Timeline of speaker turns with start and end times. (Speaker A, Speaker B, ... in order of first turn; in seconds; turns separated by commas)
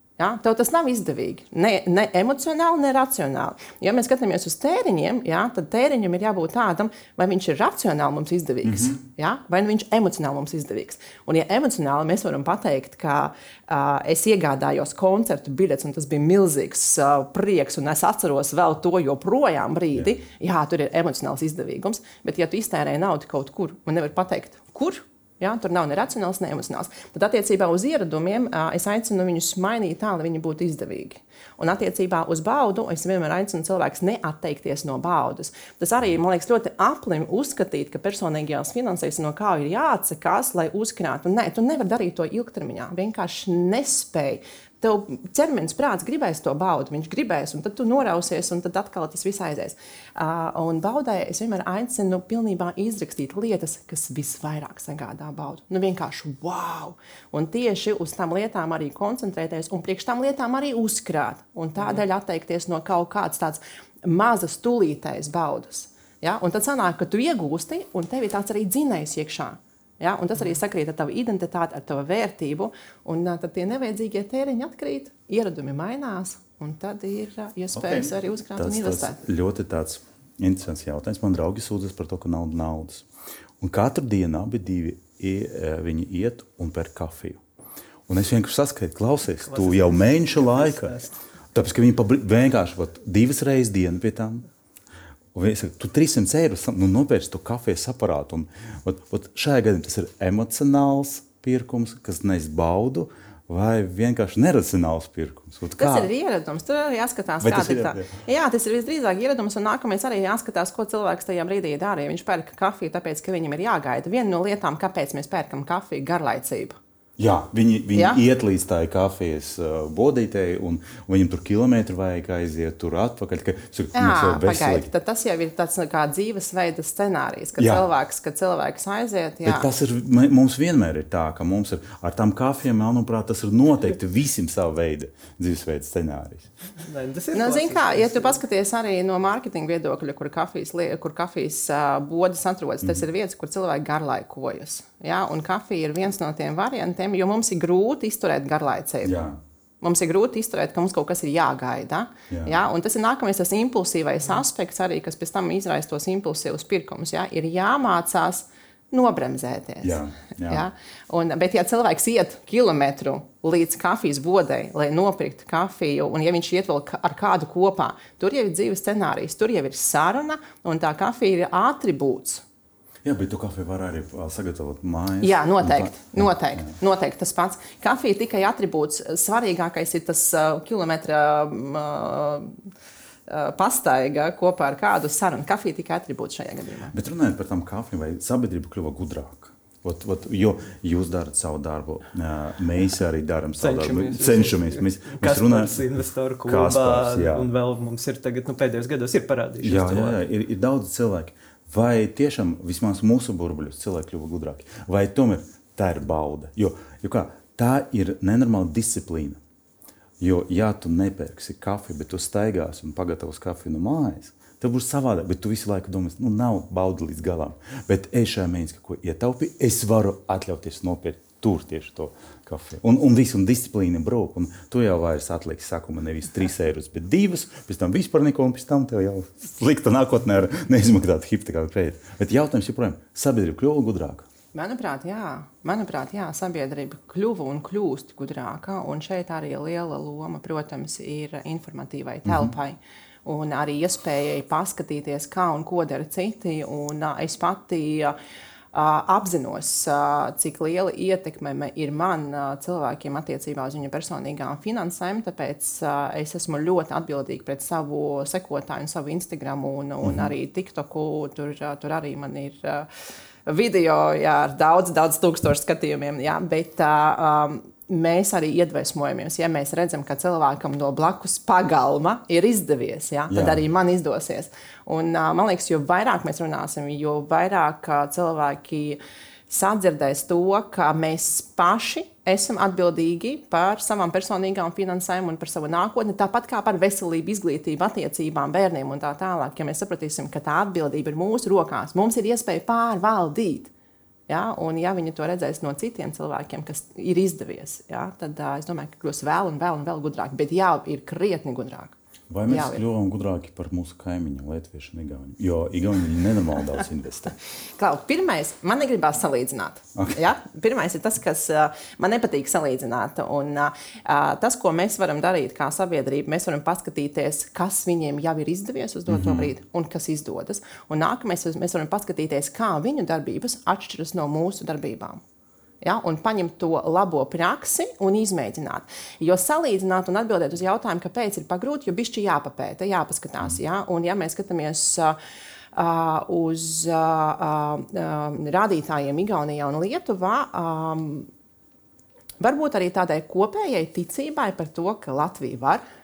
Speaker A: 0.2-79.2, Speaker B: 8.6-9.0, Speaker B: 77.7-83.1, Speaker B: 83.6-87.4, Speaker B: 88.1-91.0, Speaker C: 89.4-91.1, Speaker B: 91.5-94.5, Speaker B: 95.3-106.1, Speaker A: 105.8-116.7, Speaker B: 107.4-108.1, Speaker B: 117.2-124.9, Speaker A: 117.9-118.2, Speaker A: 123.9-129.7, Speaker B: 127.6-127.8, Speaker B: 129.4-136.5, Speaker C: 136.9-138.4, Speaker A: 137.3-149.1, Speaker B: 149.0-149.4, Speaker A: 149.8-172.4, Speaker B: 152.3-152.6, Speaker B: 159.8-160.7, Speaker B: 173.0-176.7, Speaker A: 175.2-182.6, Speaker A: 183.3-186.9, Speaker B: 186.9-195.8, Speaker C: 193.6-200.2, Speaker B: 196.4-197.5, Speaker B: 199.6-209.4, Speaker B: 210.2-234.3, Speaker A: 234.5-248.1, Speaker B: 242.2-242.5, Speaker A: 248.7-262.9, Speaker B: 260.0-260.3, Speaker A: 263.4-293.7, Speaker B: 273.3-273.6, Speaker A: 294.3-301.9, Speaker B: 302.3-307.4, Speaker A: 302.5-302.8, Speaker A: 307.8-325.2, Speaker B: 319.1-319.5, Speaker A: 325.8-335.1, Speaker A: 335.7-341.3, Speaker A: 342.4-345.8